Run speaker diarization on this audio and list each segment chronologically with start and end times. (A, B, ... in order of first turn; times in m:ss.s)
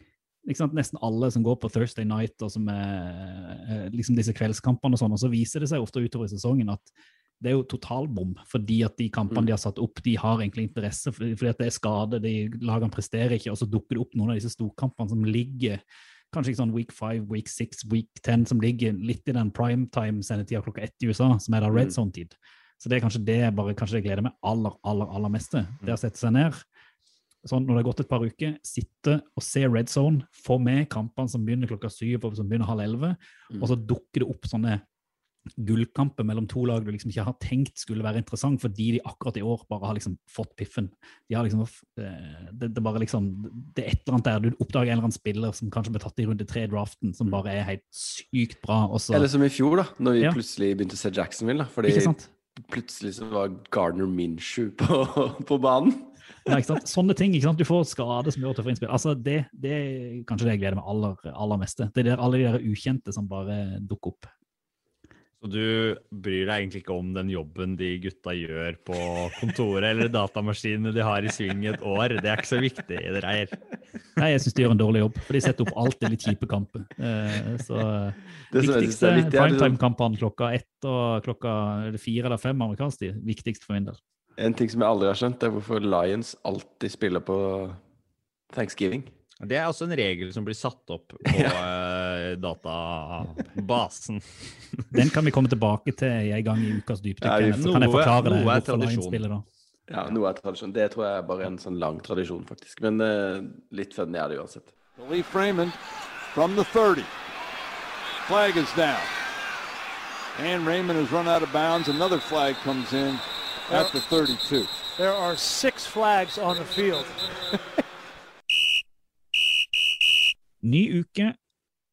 0:00.4-0:15.8 A
0:16.3-0:26.6 A
0:27.4-0:34.8 A
0:35.6-0:49.3 A
0:49.1-0:56.6 B
0:51.8-0:52.3 A
0:56.5-1:04.3 A
1:05.4-1:13.5 C
1:14.2-1:24.0 A
1:18.5-1:19.8 B
1:24.4-1:27.8 B
1:28.5-1:29.1 B
1:29.4-1:34.9 C
1:34.9-1:39.4 A
1:37.2-1:37.8 B
1:37.3-1:39.2 C
1:39.9-1:44.7 B
1:45.0-1:47.1 D
1:48.2-1:49.1 D
1:50.3-1:54.8 D
1:53.7-1:53.9 E
1:55.0-1:57.2 E
2:00.6-2:01.3 A